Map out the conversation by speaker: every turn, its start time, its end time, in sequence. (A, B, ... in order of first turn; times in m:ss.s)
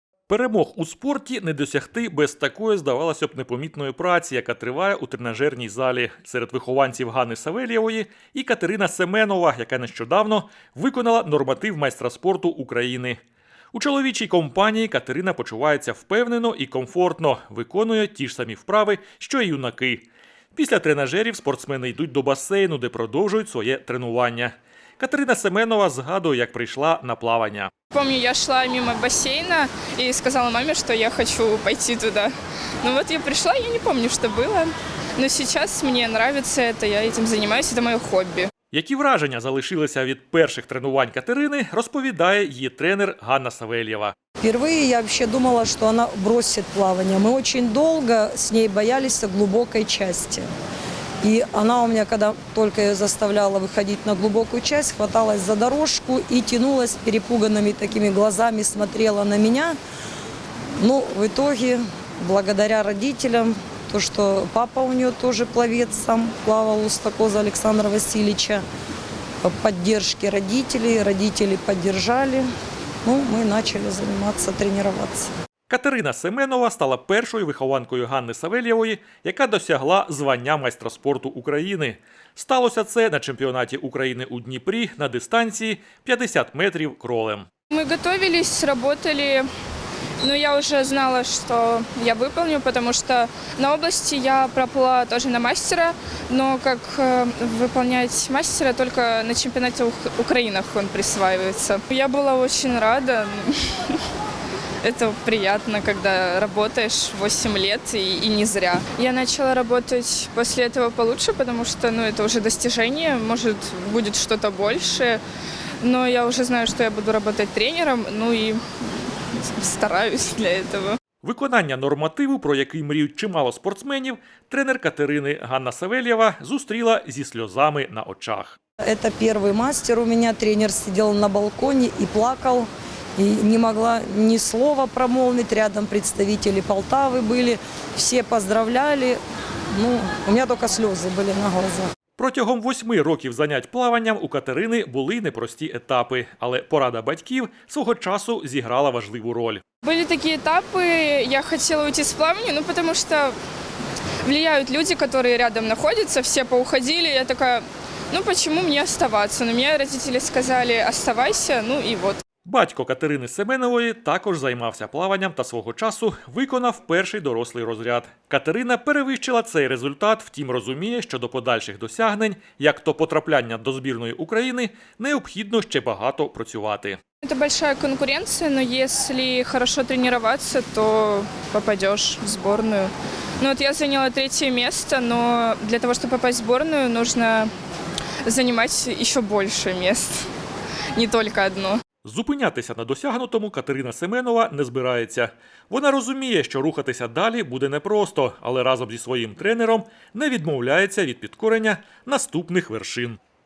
0:00.3-0:13.2 A
0:13.7-0:27.7 A
0:27.9-0:38.5 B
0:38.7-0:44.1 A
0:44.4-0:50.4 C
0:51.2-0:59.7 C
1:00.8-1:08.6 C
1:09.4-1:12.4 C
1:13.0-1:15.3 C
1:15.7-1:27.5 A
1:27.7-1:29.5 B
1:30.2-1:44.0 B
1:44.8-1:55.2 B
1:55.8-1:58.6 B
1:59.3-2:01.0 B
2:01.2-2:08.5 A
2:08.9-2:19.2 C
2:19.8-2:21.9 C
2:22.2-2:29.6 A
2:29.8-2:33.3 B
2:34.2-2:42.2 B
2:42.4-2:57.0 A
2:57.2-3:07.5 B
3:08.2-3:10.2 B
3:11.0-3:11.8 B
3:12.0-3:23.2 A